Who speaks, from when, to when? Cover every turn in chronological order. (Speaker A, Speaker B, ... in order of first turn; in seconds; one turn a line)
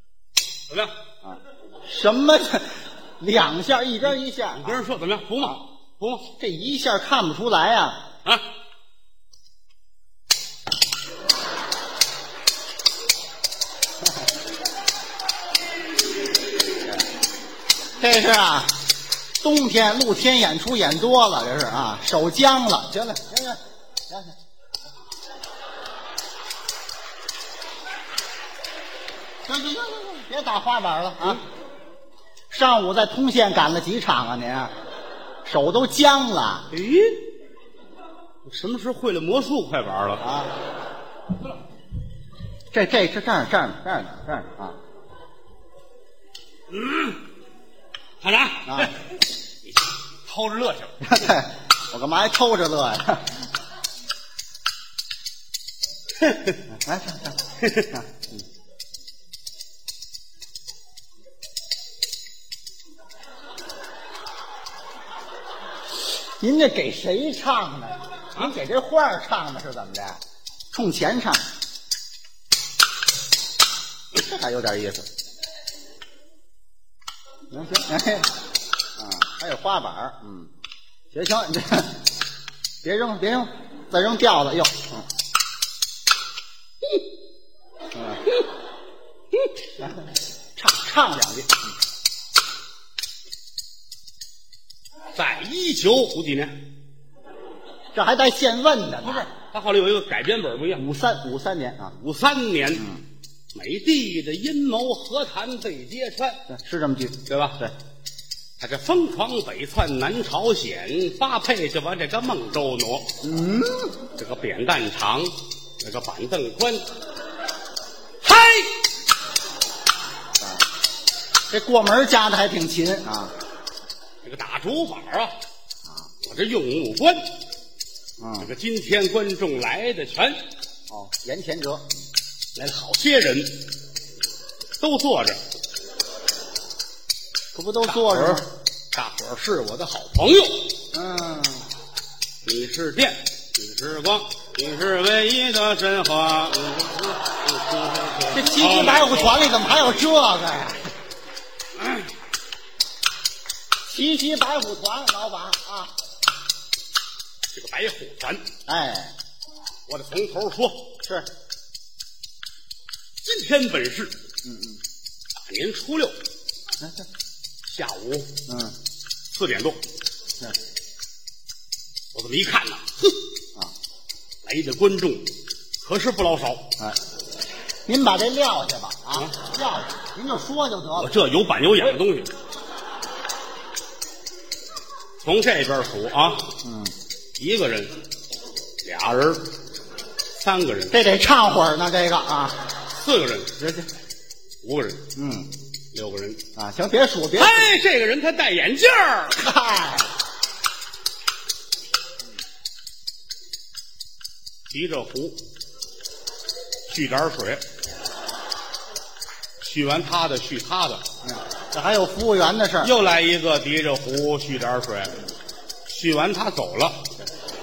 Speaker A: 0.7-0.9
Speaker B: 1.2-4.8
Speaker A: 4.5-6.3
Speaker B: 6.3-8.1
Speaker B: 18.0-18.8
Speaker B: 19.4-24.3
Speaker B: 29.4-31.4
Speaker B: 32.5-34.7
Speaker B: 35.4-36.7
Speaker A: 36.7-37.2
Speaker A: 38.4-40.2
Speaker B: 40.2-40.5
Speaker B: 42.7-44.8
Speaker A: 46.7-47.2
Speaker A: 48.2-49.1
Speaker B: 48.7-48.9
Speaker A: 49.6-51.2
Speaker B: 51.0-53.4
Speaker A: 56.2-56.6
Speaker B: 56.7-57.4
Speaker A: 57.6-57.9
Speaker B: 57.9-58.2
Speaker B: 66.4-70.2
Speaker B: 70.7-71.4
Speaker B: 74.1-75.1
Speaker B: 77.5-78.3
Speaker B: 79.0-80.5
Speaker B: 81.1-82.0
Speaker B: 82.8-85.0
Speaker B: 87.9-88.2
Speaker B: 90.5-91.6
Speaker A: 95.1-96.6
Speaker B: 97.9-99.3
Speaker A: 99.0-100.9
Speaker B: 100.8-102.0
Speaker A: 102.0-102.9
Speaker A: 103.5-106.5
Speaker B: 106.5-107.7
Speaker A: 107.2-107.6
Speaker A: 108.6-113.2
Speaker B: 113.2-113.9
Speaker A: 114.2-116.9
Speaker A: 118.2-118.8
Speaker B: 121.5-123.3
Speaker A: 124.2-125.3
Speaker A: 126.2-127.4
Speaker B: 128.2-128.5
Speaker A: 128.4-130.4
Speaker B: 130.9-132.0
Speaker A: 132.5-133.7
Speaker A: 134.8-135.4
Speaker B: 137.5-138.5
Speaker A: 137.9-140.8
Speaker B: 140.9-141.7
Speaker A: 142.4-150.0
Speaker B: 148.3-150.9
Speaker A: 151.7-152.1
Speaker B: 153.8-155.9
Speaker A: 157.5-158.5
Speaker B: 158.7-159.1
Speaker A: 159.9-160.9
Speaker B: 161.0-161.3
Speaker A: 163.2-164.2
Speaker B: 164.4-164.8
Speaker A: 165.3-166.2
Speaker B: 166.8-167.1
Speaker A: 167.6-168.3
Speaker B: 168.5-168.7
Speaker A: 169.3-169.8
Speaker A: 172.1-173.1
Speaker A: 174.4-176.7
Speaker B: 177.8-181.2
Speaker A: 180.9-182.3
Speaker A: 185.2-186.6
Speaker B: 186.6-186.9
Speaker A: 187.3-188.1
Speaker A: 188.8-189.6
Speaker A: 190.3-191.0
Speaker B: 190.9-192.7
Speaker A: 192.9-193.6
Speaker B: 193.6-193.9
Speaker A: 194.6-195.0
Speaker B: 195.2-195.5
Speaker A: 195.9-196.4
Speaker B: 196.5-197.7
Speaker A: 197.3-199.4
Speaker B: 199.3-200.1
Speaker A: 204.7-205.4
Speaker A: 206.9-207.7
Speaker A: 209.6-211.1
Speaker B: 211.2-213.0
Speaker A: 212.8-215.2
Speaker A: 215.8-217.2